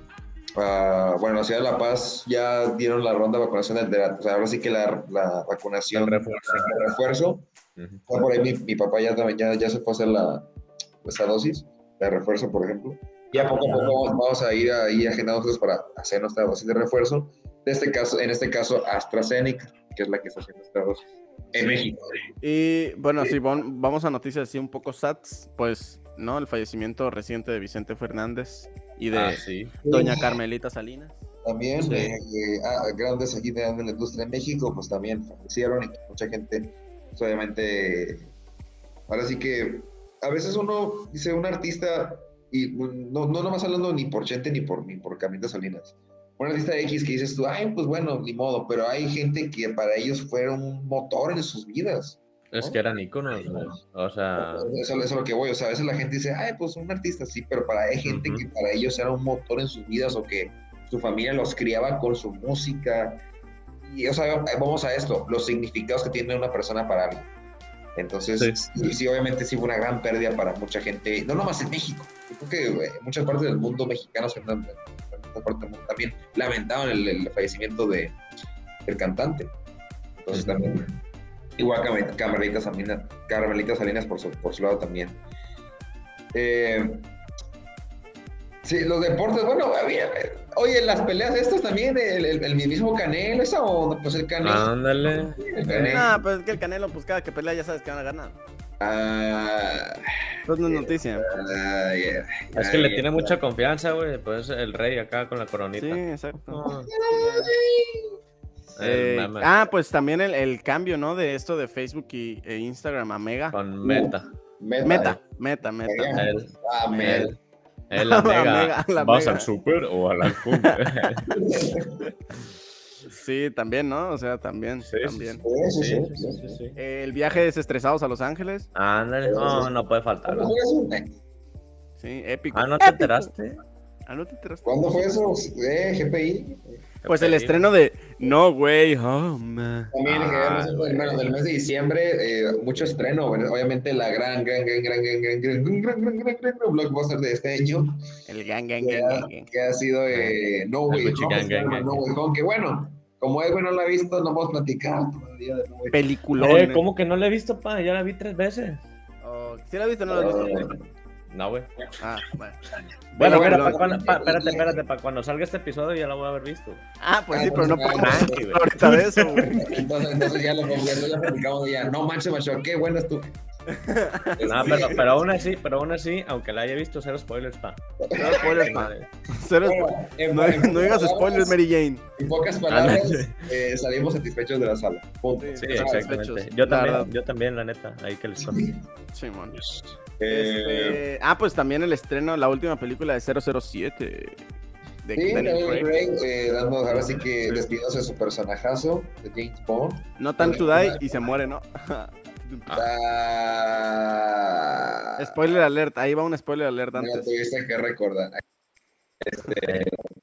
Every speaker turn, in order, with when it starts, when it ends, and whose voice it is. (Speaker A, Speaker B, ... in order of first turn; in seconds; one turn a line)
Speaker A: 0.6-7.5
Speaker B: 5.9-6.8
Speaker B: 7.8-8.0
Speaker A: 8.1-10.5
Speaker A: 11.0-22.3
Speaker B: 13.4-13.9
Speaker C: 22.4-31.2
Speaker B: 29.1-29.8
Speaker A: 29.8-30.4
Speaker A: 31.4-38.3
Speaker B: 31.8-32.1
Speaker A: 39.1-52.8
Speaker B: 52.5-54.7
Speaker A: 53.4-53.7
Speaker A: 54.4-63.2
Speaker B: 58.0-58.5
Speaker A: 63.9-67.3
Speaker A: 68.0-78.2
Speaker A: 78.9-79.5
Speaker A: 80.2-81.0
Speaker B: 80.3-80.7
Speaker A: 81.6-85.2
Speaker A: 86.3-87.1
Speaker A: 88.6-96.2
Speaker B: 94.4-96.0
Speaker C: 95.7-98.4
Speaker A: 98.8-100.1
Speaker C: 100.5-101.3
Speaker A: 100.7-103.4
Speaker B: 102.5-106.9
Speaker C: 105.8-107.5
Speaker A: 106.9-108.1
Speaker B: 108.8-109.5
Speaker C: 108.8-113.6
Speaker B: 113.5-114.3
Speaker A: 113.8-115.2
Speaker C: 114.8-116.2
Speaker A: 115.8-117.3
Speaker B: 116.1-117.4
Speaker C: 116.9-117.3
Speaker B: 117.9-121.4
Speaker C: 118.0-119.5
Speaker C: 120.3-120.8
Speaker A: 121.3-122.0
Speaker C: 123.1-125.4
Speaker B: 124.8-126.8
Speaker A: 125.4-126.6
Speaker C: 126.8-128.7
Speaker B: 128.8-130.5
Speaker A: 129.2-129.7
Speaker A: 130.2-131.2
Speaker C: 132.0-133.3
Speaker B: 132.5-133.6
Speaker C: 134.1-135.1
Speaker A: 134.6-136.8
Speaker B: 137.0-137.7
Speaker C: 137.1-139.9
Speaker A: 139.9-147.9
Speaker B: 140.1-141.2
Speaker C: 148.3-149.5
Speaker A: 148.8-156.0
Speaker B: 150.9-152.0
Speaker C: 155.9-156.8
Speaker B: 156.4-158.9
Speaker C: 159.2-160.7
Speaker A: 160.1-160.8
Speaker B: 161.3-161.7
Speaker C: 162.0-162.6
Speaker A: 163.1-164.8
Speaker C: 163.2-163.8
Speaker B: 163.2-166.8
Speaker C: 167.0-169.8
Speaker A: 167.3-168.4
Speaker B: 167.9-169.4
Speaker A: 169.6-173.3
Speaker C: 173.7-175.0
Speaker A: 174.4-175.2
Speaker B: 174.4-177.8
Speaker A: 178.0-178.8
Speaker C: 178.1-182.1
Speaker B: 178.3-179.1
Speaker A: 179.6-181.6
Speaker A: 182.2-186.1
Speaker B: 182.7-183.4
Speaker C: 185.4-187.1
Speaker B: 185.6-188.8
Speaker A: 188.4-188.8
Speaker C: 189.1-189.6
Speaker A: 190.2-191.0
Speaker C: 190.3-194.4
Speaker C: 195.0-195.9
Speaker A: 195.2-201.1
Speaker B: 197.1-197.7
Speaker C: 200.2-202.7
Speaker A: 202.7-205.3
Speaker C: 205.2-207.3
Speaker A: 206.9-208.4
Speaker A: 209.2-210.0
Speaker B: 209.6-209.9